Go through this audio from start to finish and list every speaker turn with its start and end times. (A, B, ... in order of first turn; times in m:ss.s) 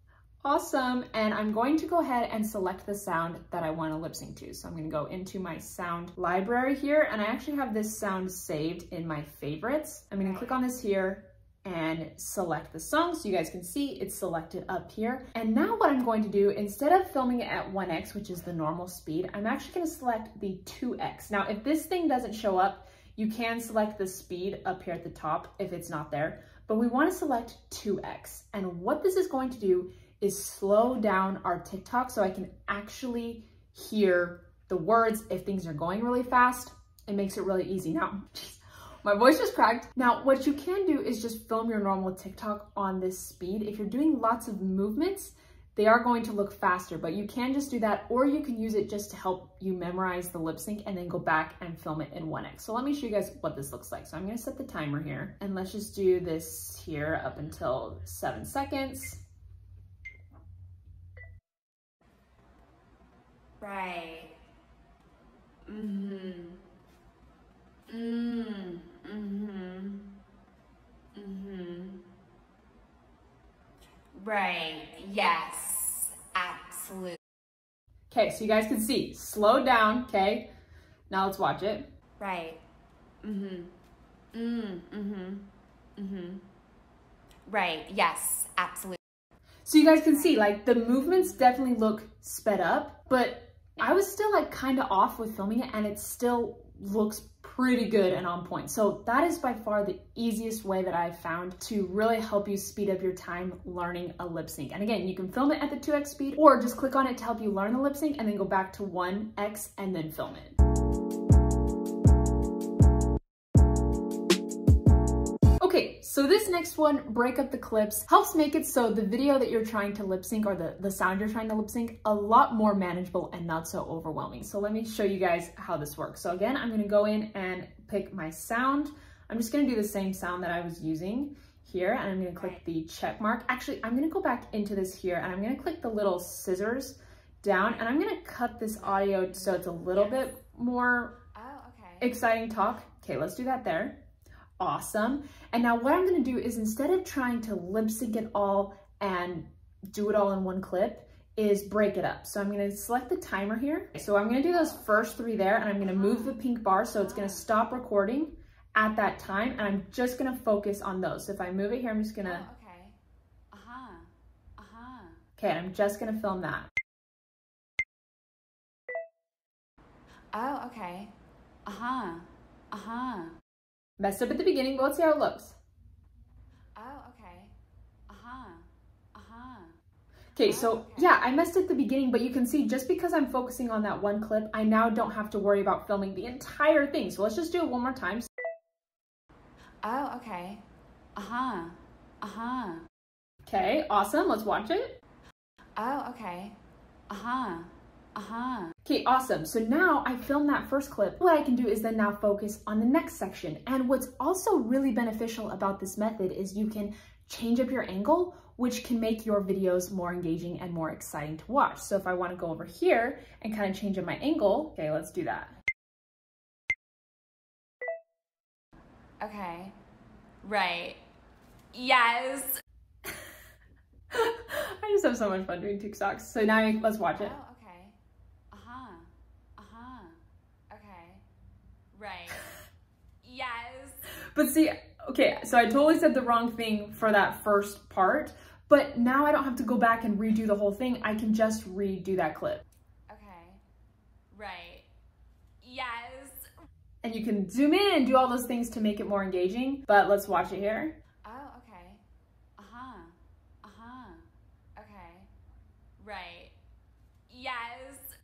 0:00.4-0:59.2 A
0:10.2-0:10.6 B
1:03.6-1:04.3 B
1:05.7-1:06.6 B
1:07.9-1:10.0 B
1:11.1-1:12.0 B
1:14.1-1:17.2 B
1:18.1-1:20.5 A
1:21.1-1:21.9 A
1:22.2-1:22.6 B
1:23.2-1:23.7 B
1:24.3-1:25.4 B
1:26.0-1:26.4 B
1:27.5-1:29.0 B
1:29.6-1:50.6 A
1:30.1-1:30.4 B
1:55.6-2:21.1 A
2:18.7-2:20.2 B
2:21.3-2:22.1 B
2:22.0-2:24.0 A
2:24.6-2:42.4 A
2:35.8-2:37.4 B
2:42.2-2:43.0 B
2:43.5-2:45.2 B
2:45.4-2:46.7 A
2:50.3-2:51.1 B
2:51.6-2:53.4 B
2:54.0-2:55.6 A
2:56.8-2:57.5 B
2:58.1-2:59.7 B
3:00.3-3:08.3 A
3:00.4-3:01.1 B
3:09.8-3:10.6 B
3:11.2-3:12.8 B
3:13.4-3:15.0 A
3:15.8-3:16.5 B
3:17.1-3:18.7 B
3:18.8-3:35.6 A
3:39.2-3:39.7 B
3:40.4-3:41.0 B
3:41.7-3:42.6 B
3:44.1-3:47.4 A
3:47.2-3:48.0 B
3:48.5-3:50.2 B
3:50.7-3:51.2 B
3:51.9-3:52.5 B
3:53.2-3:54.0 B
3:54.3-4:02.6 A
4:03.1-4:03.6 B
4:04.3-4:04.8 B
4:05.6-4:06.4 B
4:07.0-4:11.0 A
4:11.2-4:12.0 B
4:12.6-4:15.3 B
4:16.0-4:16.5 B
4:17.3-4:18.0 B